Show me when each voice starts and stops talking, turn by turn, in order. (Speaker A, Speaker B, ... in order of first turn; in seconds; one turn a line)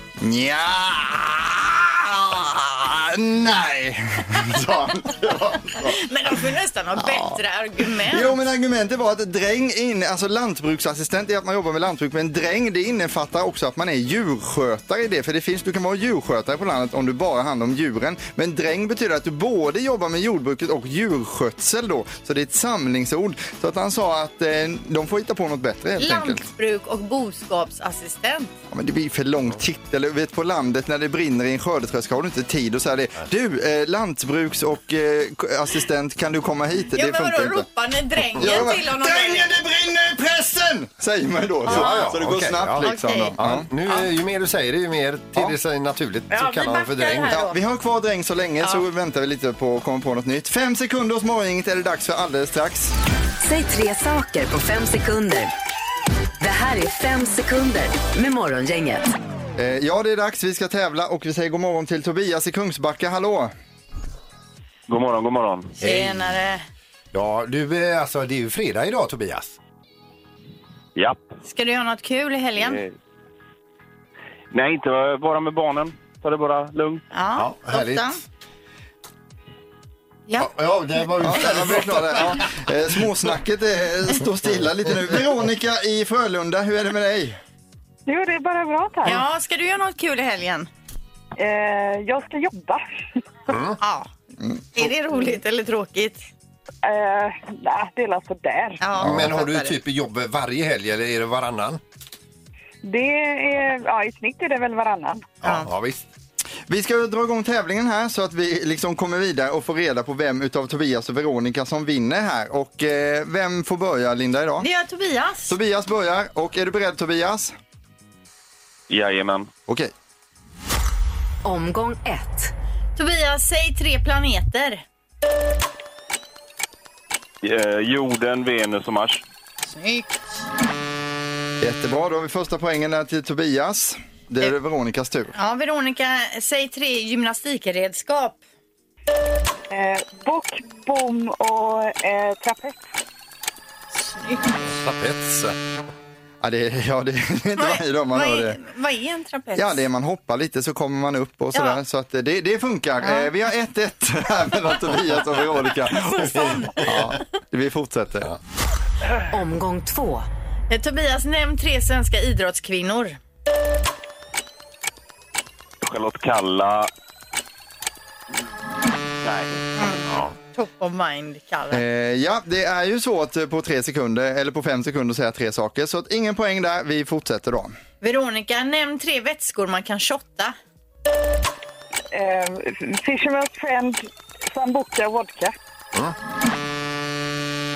Speaker A: 0.2-6.0
Speaker B: 5.8-8.4
Speaker A: 7.0-7.3
Speaker A: 8.1-26.4
Speaker B: 26.0-28.5
Speaker A: 28.7-37.7
Speaker B: 36.9-39.5
Speaker A: 38.4-43.7
Speaker C: 41.6-47.4
Speaker B: 41.7-42.2
Speaker B: 42.8-44.1
Speaker B: 46.3-47.6
Speaker A: 47.3-52.9
Speaker D: 53.4-55.5
Speaker D: 56.4-59.1
Speaker A: 59.6-63.5
Speaker E: 64.9-65.8
Speaker B: 65.8-66.6
Speaker C: 65.8-66.3
Speaker C: 67.1-69.6
Speaker E: 71.0-71.3
Speaker B: 71.4-72.8
Speaker E: 72.6-72.9
Speaker E: 74.5-77.0
Speaker B: 77.1-78.2
Speaker C: 77.3-78.2
Speaker C: 80.4-82.5
Speaker A: 81.2-87.4
Speaker F: 88.1-89.2
Speaker B: 89.0-90.7
Speaker F: 91.3-92.8
Speaker C: 93.5-93.8
Speaker B: 93.8-94.1
Speaker A: 94.4-94.9
Speaker B: 94.7-96.2
Speaker F: 96.8-98.8
Speaker B: 98.8-99.8
Speaker C: 99.0-101.8
Speaker F: 102.8-105.3
Speaker C: 105.4-106.1
Speaker A: 106.7-114.7
Speaker B: 114.6-115.5
Speaker A: 115.5-117.5
Speaker E: 118.9-119.5
Speaker A: 119.7-119.9
Speaker D: 121.4-122.5
Speaker B: 123.0-124.8
Speaker E: 127.4-129.2
Speaker B: 129.6-130.4
Speaker A: 131.6-135.3
Speaker B: 135.3-138.4
Speaker F: 139.7-142.9
Speaker B: 143.9-144.5
Speaker C: 144.6-145.6
Speaker A: 146.4-148.6
Speaker B: 147.6-149.8
Speaker A: 149.6-158.3
Speaker B: 153.0-153.3
Speaker B: 155.9-157.2
Speaker D: 159.3-160.3
Speaker B: 160.7-163.2
Speaker E: 165.8-166.9
Speaker E: 169.2-169.5
Speaker B: 169.8-171.8
Speaker A: 171.7-177.8
Speaker B: 178.0-180.6
Speaker F: 182.1-185.6